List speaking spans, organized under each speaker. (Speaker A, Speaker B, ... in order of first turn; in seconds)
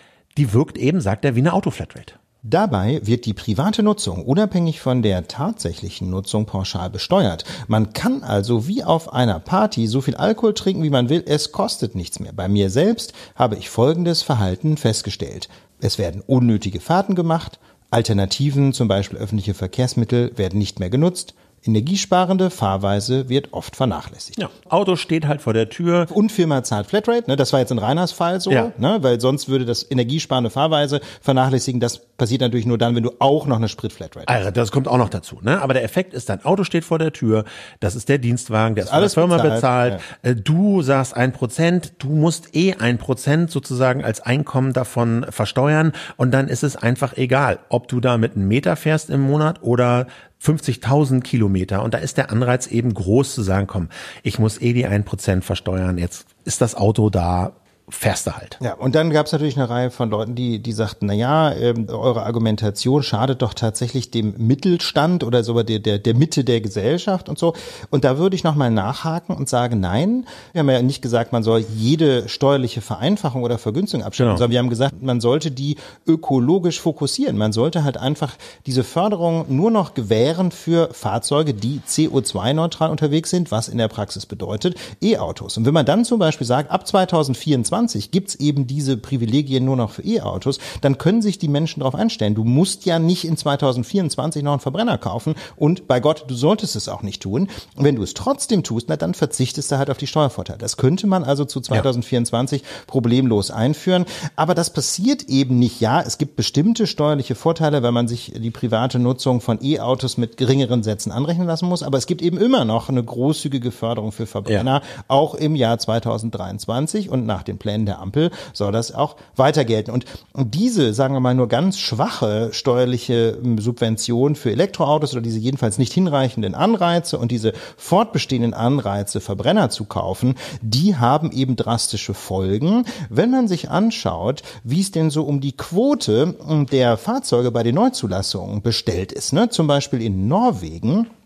Speaker A: 0.3-2.1, 24.4-26.1, 34.3-58.6, 74.2-74.4
Speaker B: 2.4-24.4, 26.1-34.3, 38.8-40.0, 58.6-141.1